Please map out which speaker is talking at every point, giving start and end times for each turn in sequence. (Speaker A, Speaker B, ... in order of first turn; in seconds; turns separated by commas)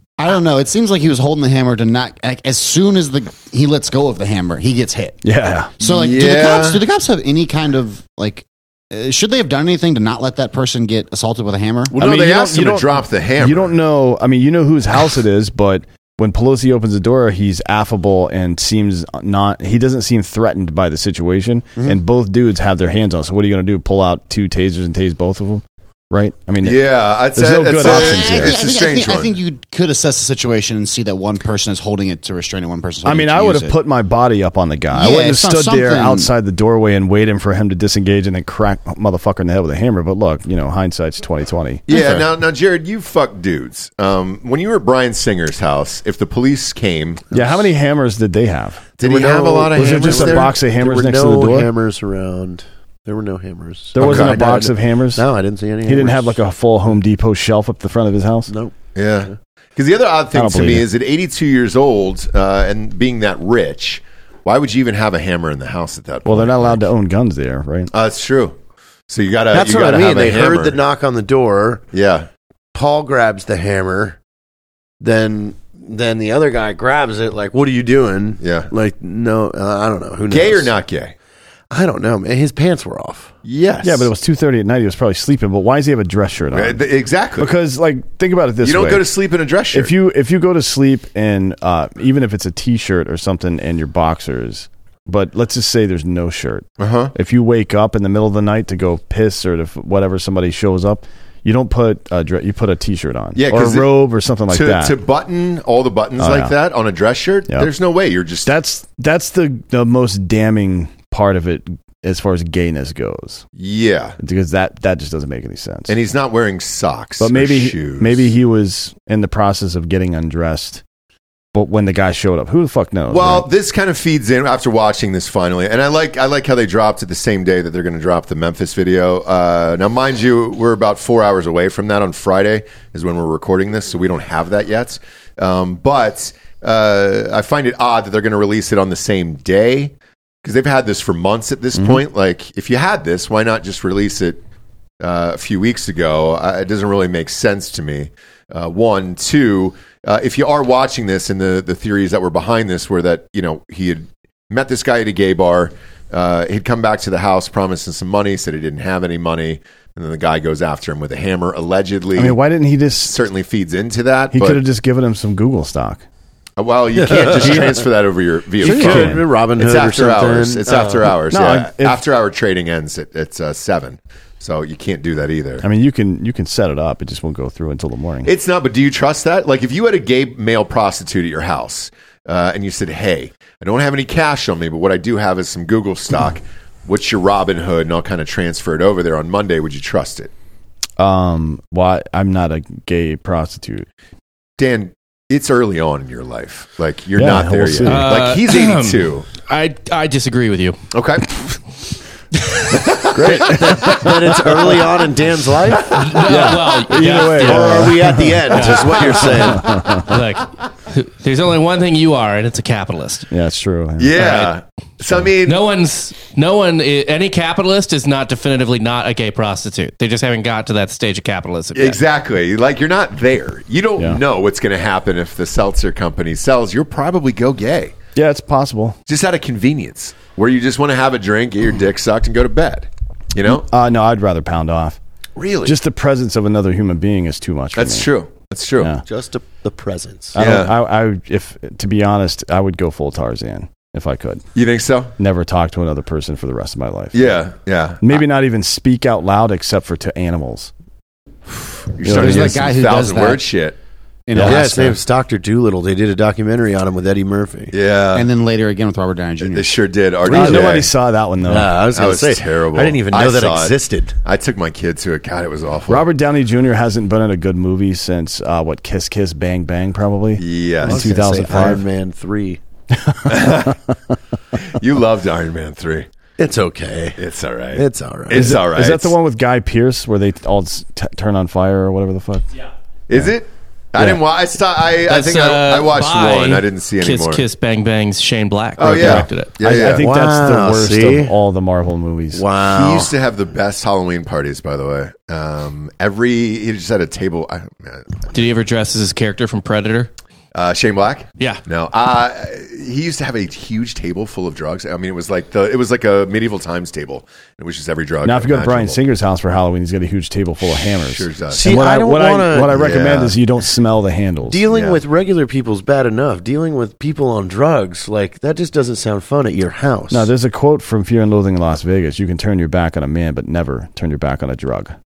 Speaker A: 0.2-5.2, Speaker B: 5.2-5.7, Speaker A: 5.8-11.9, Speaker C: 5.8-6.8, Speaker C: 11.9-13.7, Speaker B: 11.9-26.8, Speaker C: 26.6-29.4, Speaker B: 27.3-28.6, Speaker A: 27.8-33.8, Speaker B: 33.0-41.8, Speaker A: 34.9-36.3, Speaker C: 41.9-47.2, Speaker D: 41.9-42.2, Speaker B: 47.3-49.0, Speaker C: 49.0-50.5, Speaker D: 49.0-56.4, Speaker B: 49.7-51.7, Speaker B: 53.9-55.2, Speaker C: 54.0-54.4, Speaker B: 55.8-58.5, Speaker D: 58.5-59.3, Speaker C: 58.9-66.8, Speaker B: 60.3-60.9, Speaker B: 66.2-67.9, Speaker C: 67.9-68.5, Speaker C: 69.1-70.8, Speaker D: 69.5-71.8, Speaker C: 71.9-72.3, Speaker D: 72.7-74.2, Speaker D: 75.0-80.7, Speaker C: 78.4-78.7, Speaker C: 80.3-81.1, Speaker D: 81.7-83.3, Speaker C: 83.4-84.1, Speaker B: 83.8-86.8, Speaker C: 86.5-87.5, Speaker B: 87.4-89.0, Speaker C: 88.6-89.9, Speaker B: 89.7-105.0, Speaker C: 96.8-97.1, Speaker C: 103.3-108.5, Speaker B: 106.2-106.5, Speaker B: 108.4-113.4, Speaker C: 113.5-114.2, Speaker B: 114.2-115.9, Speaker C: 115.9-118.3, Speaker B: 117.2-120.8, Speaker B: 121.5-123.5, Speaker C: 123.1-139.9, Speaker C: 140.4-144.4, Speaker C: 145.0-162.4, Speaker B: 162.2-163.1, Speaker C: 163.0-164.6, Speaker B: 164.3-166.0, Speaker C: 166.6-175.6, Speaker D: 167.0-167.8, Speaker D: 168.6-171.1, Speaker B: 168.6-169.2, Speaker B: 171.3-172.0, Speaker B: 175.6-178.3, Speaker C: 178.2-190.3, Speaker B: 191.0-193.9, Speaker C: 194.6-199.3, Speaker B: 197.2-198.1, Speaker E: 197.9-200.8, Speaker C: 200.9-201.3, Speaker B: 203.1-204.6, Speaker D: 203.2-206.0, Speaker E: 205.9-207.9, Speaker B: 206.2-208.6, Speaker D: 207.2-209.8, Speaker E: 208.5-209.4, Speaker B: 209.4-210.1, Speaker E: 210.0-213.3, Speaker B: 213.3-214.1, Speaker C: 214.0-215.6, Speaker E: 214.1-214.5, Speaker E: 215.4-222.0, Speaker C: 221.7-227.9, Speaker B: 228.2-229.0, Speaker C: 229.1-233.6, Speaker B: 233.5-235.0, Speaker C: 235.3-235.7, Speaker B: 235.6-238.1, Speaker C: 237.8-238.9, Speaker D: 239.1-240.3, Speaker B: 240.3-244.4, Speaker C: 240.3-240.7, Speaker C: 244.5-245.1, Speaker B: 245.2-247.3, Speaker C: 247.1-248.2, Speaker B: 248.0-250.7, Speaker C: 251.5-253.8, Speaker B: 252.0-252.5, Speaker A: 252.1-253.5, Speaker A: 254.3-254.9, Speaker B: 254.3-254.6, Speaker D: 254.4-257.7, Speaker C: 257.7-258.3, Speaker A: 258.1-259.7, Speaker C: 259.4-260.9, Speaker B: 260.3-261.7, Speaker D: 260.3-260.8, Speaker D: 261.4-264.1, Speaker C: 261.9-266.1, Speaker B: 265.9-271.8, Speaker C: 270.4-271.8, Speaker D: 270.9-272.6, Speaker B: 273.0-273.7, Speaker C: 273.2-273.8, Speaker C: 274.7-276.1, Speaker D: 276.4-277.2, Speaker C: 277.2-279.1, Speaker D: 277.7-278.6, Speaker B: 278.3-282.5, Speaker C: 283.1-287.4, Speaker E: 285.1-289.5, Speaker C: 288.8-290.0, Speaker B: 288.9-292.4, Speaker D: 289.7-291.3, Speaker D: 292.3-293.1, Speaker C: 292.7-298.3, Speaker E: 298.3-300.1, Speaker C: 300.5-309.0, Speaker B: 308.2-314.6, Speaker C: 310.9-311.8, Speaker D: 311.5-313.0, Speaker C: 312.7-313.3, Speaker D: 314.5-320.3, Speaker C: 314.7-315.0, Speaker B: 320.1-324.9